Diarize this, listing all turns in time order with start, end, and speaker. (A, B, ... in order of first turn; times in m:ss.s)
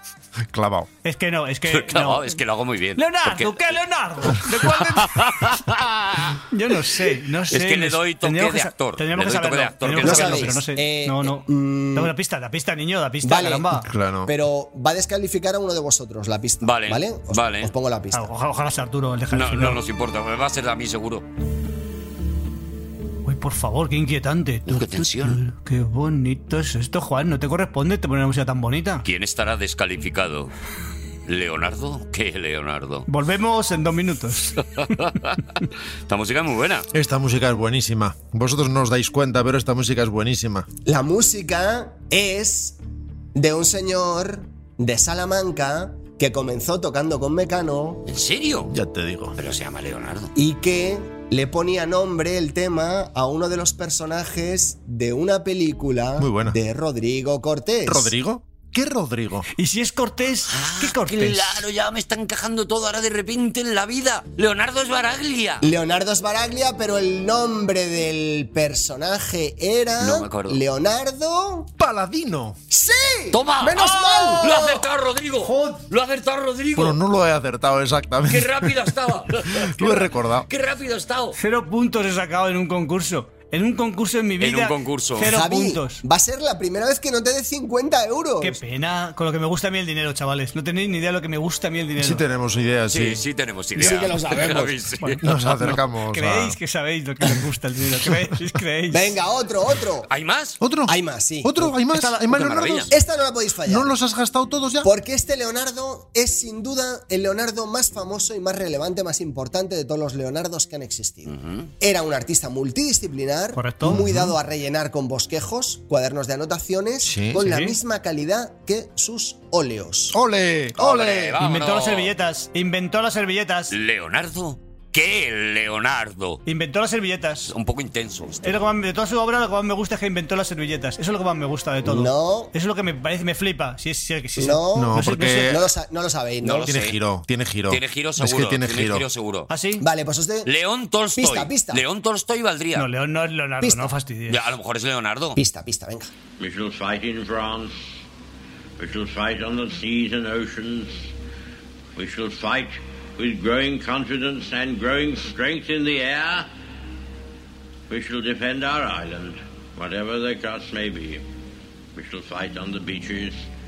0:00.4-0:00.9 A
0:01.0-0:02.4 B
0:01.7-0:03.7 C
0:03.0-0:05.5 B
0:04.4-0:06.4 C
0:06.5-0:13.9 B
0:07.5-0:10.6 C
0:10.0-0:12.1 D
0:13.2-0:18.3 D
0:13.8-0:14.3 A
0:16.6-0:17.7 C
0:18.1-0:19.8 B
0:19.3-0:21.2 C
0:23.2-0:29.0 B
0:24.7-0:25.4 C
0:29.0-0:30.5 C
0:31.3-0:33.1 C
0:33.1-0:34.9 B
0:34.8-0:35.4 C
0:36.1-0:36.9 C
0:36.9-0:40.7 A
0:40.9-0:42.8 D
0:43.4-0:48.0 D
0:48.1-0:48.7 C
0:48.7-0:49.4 A
0:49.4-0:50.3 C
0:50.4-0:58.1 D
0:56.2-0:56.6 A
0:57.9-0:59.5 A
0:59.6-1:01.6 B
1:00.5-1:05.7 C
1:05.6-1:11.7 D
1:10.0-1:10.6 C
1:11.8-1:12.6 A
1:12.7-1:14.8 D
1:13.3-1:17.0 C
1:13.8-1:14.4 B
1:15.4-1:15.8 B
1:16.8-1:20.5 A
1:18.3-1:21.4 C
1:21.4-1:26.0 B
1:24.4-1:25.4 C
1:25.2-1:28.6 D
1:28.4-1:32.2 B
1:32.0-1:33.2 A
1:32.9-1:35.2 C
1:33.8-1:34.8 D
1:35.2-1:36.6 A
1:35.6-1:39.2 B
1:38.9-1:40.1 D
1:40.1-1:40.6 C
1:40.6-1:43.0 A
1:40.9-1:41.8 D
1:41.9-1:42.3 B
1:42.3-1:42.9 C
1:42.9-1:43.9 D
1:43.6-1:44.9 A
1:44.8-2:00.2 D
1:51.3-1:51.7 C
1:53.6-1:54.0 B
1:53.8-1:54.4 A
1:57.0-1:57.4 A
1:57.4-1:57.8 B
2:00.1-2:01.2 A
2:00.8-2:02.1 C
2:00.9-2:01.3 D
2:01.4-2:03.7 B
2:03.7-2:06.4 C
2:06.5-2:07.5 B
2:07.5-2:08.6 C
2:08.4-2:15.5 B
2:11.8-2:12.5 D
2:14.4-2:16.7 D
2:14.7-2:15.7 A
2:16.4-2:17.0 C
2:16.7-2:19.0 A
2:17.7-2:19.5 C
2:19.5-2:19.8 B
2:19.8-2:20.5 D
2:20.4-2:22.9 C
2:21.2-2:21.8 D
2:22.8-2:24.5 B
2:23.6-2:23.9 D
2:24.3-2:25.4 C
2:25.4-2:26.1 D
2:26.4-2:27.8 E
2:28.8-2:31.1 E
2:32.0-2:36.5 E
2:37.9-2:41.2 E
2:42.0-2:43.5 E